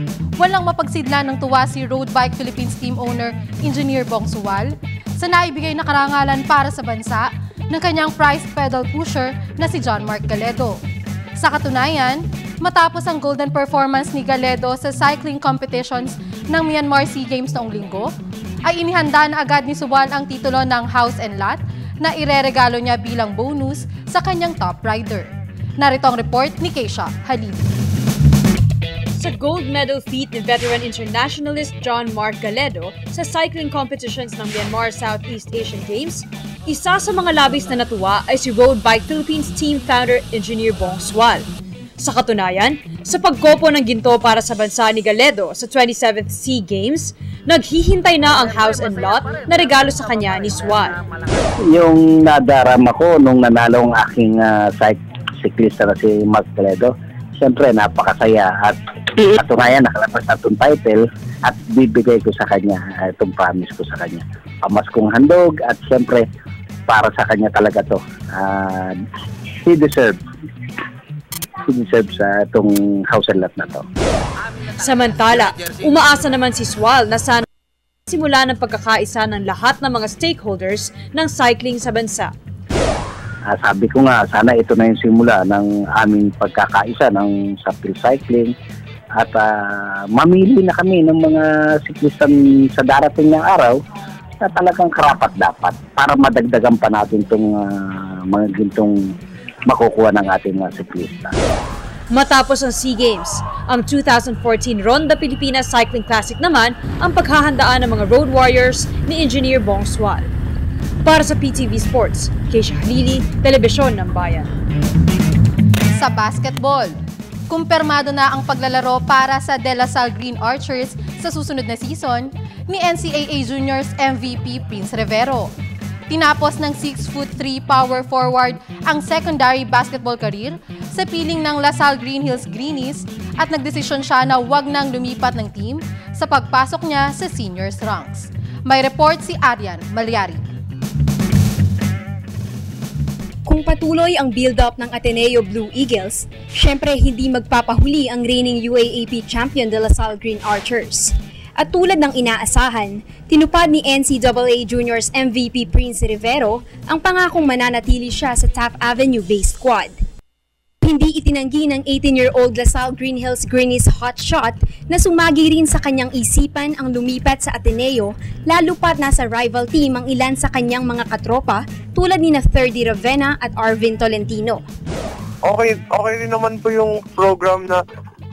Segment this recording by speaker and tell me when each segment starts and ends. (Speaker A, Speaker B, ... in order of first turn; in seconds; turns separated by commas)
Speaker A: 0.4-10.8, Speaker A: 11.4-18.1, Speaker A: 18.6-27.7, Speaker B: 29.2-41.5, Speaker B: 42.0-51.0, Speaker C: 51.7-66.3, Speaker C: 66.9-69.0, Speaker C: 69.7-70.2, Speaker C: 71.7-73.8, Speaker B: 74.8-77.5, Speaker B: 78.1-82.3, Speaker C: 83.5-88.5, Speaker C: 89.2-93.8, Speaker C: 94.4-99.0, Speaker C: 99.7-101.4, Speaker B: 102.1-110.3, Speaker B: 111.0-114.5, Speaker A: 116.0-117.0, Speaker A: 117.5-125.5, Speaker A: 126.1-140.4, Speaker D: 143.5-160.0, Speaker D: 160.8-174.6, Speaker E: 175.4-177.8